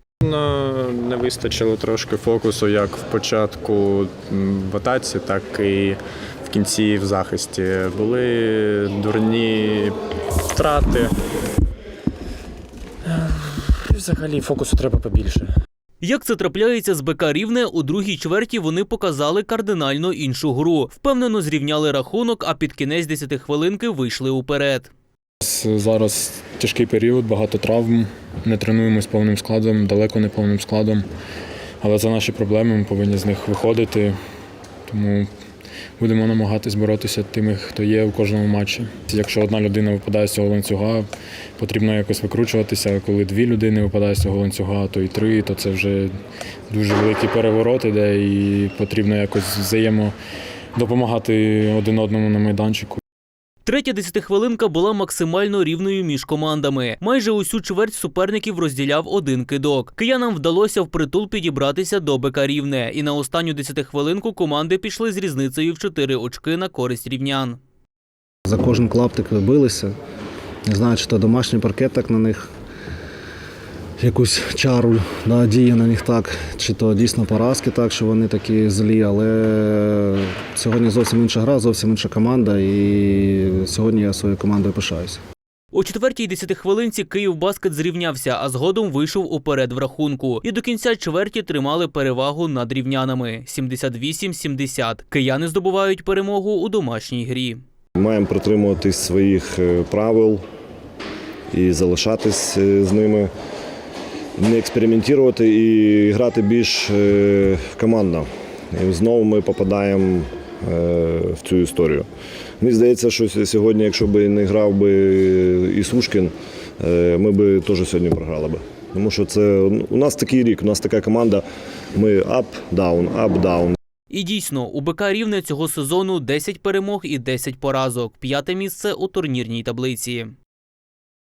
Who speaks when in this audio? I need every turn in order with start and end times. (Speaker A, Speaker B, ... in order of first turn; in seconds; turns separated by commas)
Speaker A: 0.2-11.2, Speaker A: 13.1-15.5, Speaker B: 16.0-24.9, Speaker C: 25.4-31.1, Speaker C: 31.8-34.1, Speaker C: 34.9-35.3, Speaker C: 36.0-41.0, Speaker C: 41.6-46.1, Speaker C: 46.7-50.1, Speaker C: 50.8-53.0, Speaker B: 53.6-67.6, Speaker D: 68.5-69.9, Speaker D: 70.7-72.4, Speaker D: 74.0-85.2, Speaker B: 85.7-97.6, Speaker E: 98.0-100.4, Speaker E: 101.5-103.3, Speaker E: 104.4-112.1, Speaker E: 112.6-123.8, Speaker B: 124.1-130.3